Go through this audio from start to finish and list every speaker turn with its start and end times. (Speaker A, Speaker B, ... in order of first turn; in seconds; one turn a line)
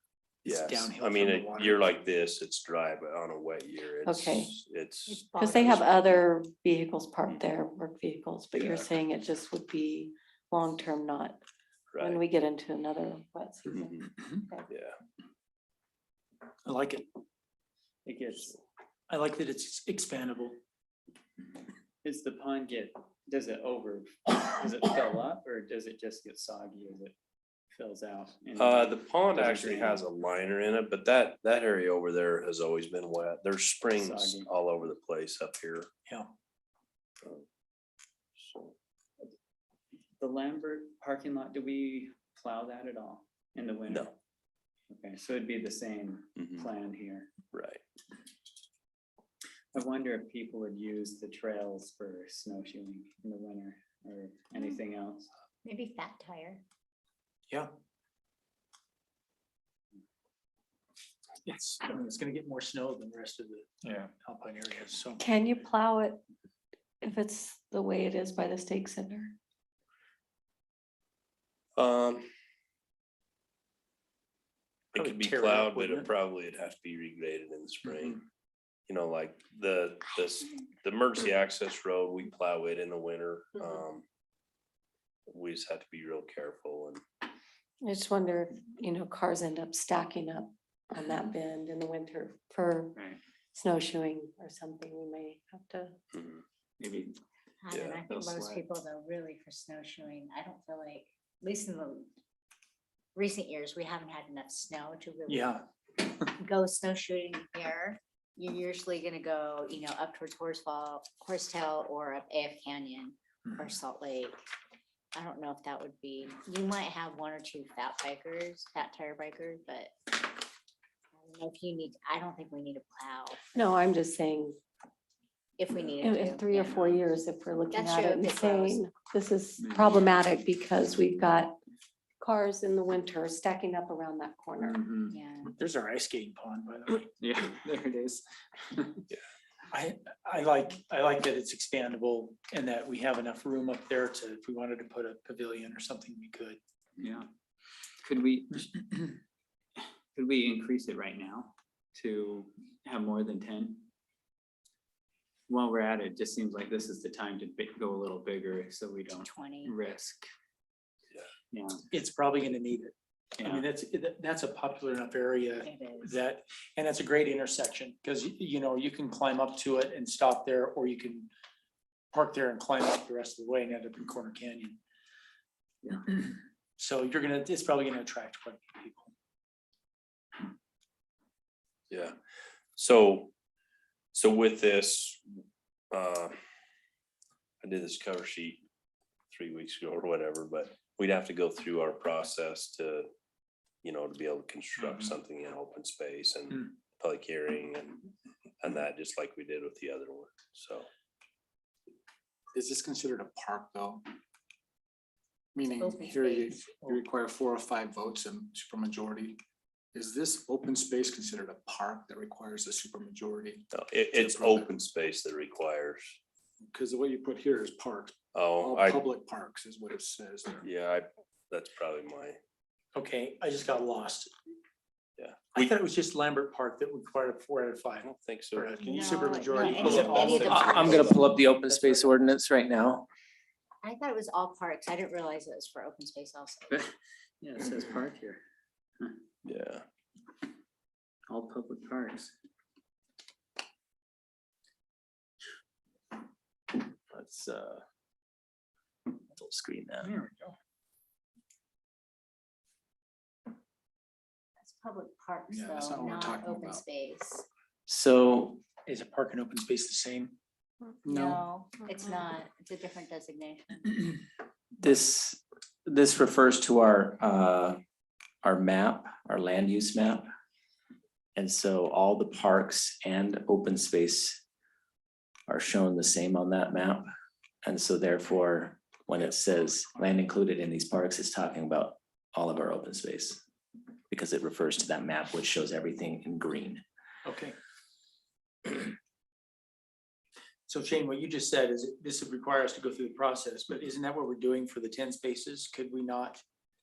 Speaker A: 0.5-1.9
Speaker B: 0.5-6.0
Speaker C: 4.0-4.5
Speaker D: 5.1-6.3
Speaker C: 5.3-11.4
Speaker B: 8.6-8.9
Speaker B: 11.9-12.2
Speaker C: 12.0-14.7
Speaker B: 13.7-14.1
Speaker B: 14.7-14.9
Speaker A: 16.6-17.1
Speaker E: 18.1-18.6
Speaker A: 19.1-20.6
Speaker E: 22.0-27.1
Speaker E: 27.7-30.0
Speaker B: 28.6-35.9
Speaker E: 34.0-34.5
Speaker A: 36.1-36.3
Speaker B: 38.4-38.8
Speaker E: 40.2-44.1
Speaker E: 44.9-47.3
Speaker B: 46.4-46.7
Speaker B: 47.5-47.8
Speaker E: 49.7-55.3
Speaker D: 55.6-56.6
Speaker A: 61.5-65.2
Speaker E: 63.8-64.1
Speaker C: 65.2-66.2
Speaker C: 67.0-69.3
Speaker B: 71.8-72.3
Speaker B: 74.9-78.2
Speaker A: 75.0-76.1
Speaker B: 78.9-84.0
Speaker B: 85.3-87.0
Speaker C: 87.8-93.0
Speaker E: 93.0-93.2
Speaker C: 93.5-96.0
Speaker B: 96.1-96.4
Speaker E: 96.8-97.2
Speaker D: 97.6-102.1
Speaker B: 97.7-98.0
Speaker E: 98.0-98.7
Speaker D: 103.2-114.3
Speaker A: 105.3-105.6
Speaker D: 115.2-120.3
Speaker D: 121.2-123.7
Speaker C: 123.5-124.6
Speaker D: 125.6-127.0
Speaker C: 126.0-131.6
Speaker D: 127.7-128.8
Speaker E: 129.6-130.0
Speaker C: 132.2-134.8
Speaker E: 134.6-135.2
Speaker D: 135.1-135.5
Speaker A: 135.5-137.1
Speaker E: 137.0-139.0
Speaker A: 139.7-146.6
Speaker E: 147.0-147.3
Speaker E: 148.0-149.1
Speaker E: 150.2-153.9
Speaker E: 155.5-160.3
Speaker D: 159.2-159.8
Speaker E: 161.5-161.8
Speaker A: 161.9-171.3
Speaker E: 163.4-163.7
Speaker D: 165.6-166.2
Speaker A: 172.1-174.8
Speaker E: 175.8-176.1
Speaker A: 176.8-179.1
Speaker B: 182.8-183.3
Speaker B: 184.1-185.2
Speaker B: 185.9-186.3
Speaker B: 187.6-188.6
Speaker B: 189.3-193.1
Speaker B: 193.8-198.1
Speaker A: 194.8-195.1
Speaker B: 198.6-200.9
Speaker F: 202.5-204.1
Speaker F: 205.6-209.4
Speaker D: 205.8-206.6
Speaker F: 209.9-214.7
Speaker B: 213.7-216.2
Speaker F: 216.7-220.7
Speaker B: 218.3-219.1
Speaker B: 220.6-222.4
Speaker A: 222.9-224.3
Speaker B: 225.2-225.8
Speaker A: 225.6-230.8
Speaker B: 228.0-228.8
Speaker D: 228.8-231.2
Speaker F: 228.8-231.0
Speaker G: 230.4-233.1
Speaker B: 230.9-231.2
Speaker D: 233.8-236.8
Speaker E: 236.7-238.4
Speaker B: 239.4-239.8
Speaker E: 241.3-242.3
Speaker G: 247.1-247.8
Speaker G: 249.3-250.1
Speaker E: 250.0-250.6
Speaker D: 254.6-257.5
Speaker F: 255.5-256.8
Speaker G: 257.9-258.6
Speaker A: 258.9-260.4
Speaker D: 261.0-264.1
Speaker G: 264.8-267.8
Speaker G: 268.4-270.3
Speaker G: 271.4-274.4
Speaker G: 275.5-277.1
Speaker G: 277.6-283.4
Speaker A: 279.1-280.2
Speaker G: 284.1-286.8
Speaker A: 287.2-287.5
Speaker A: 290.7-296.4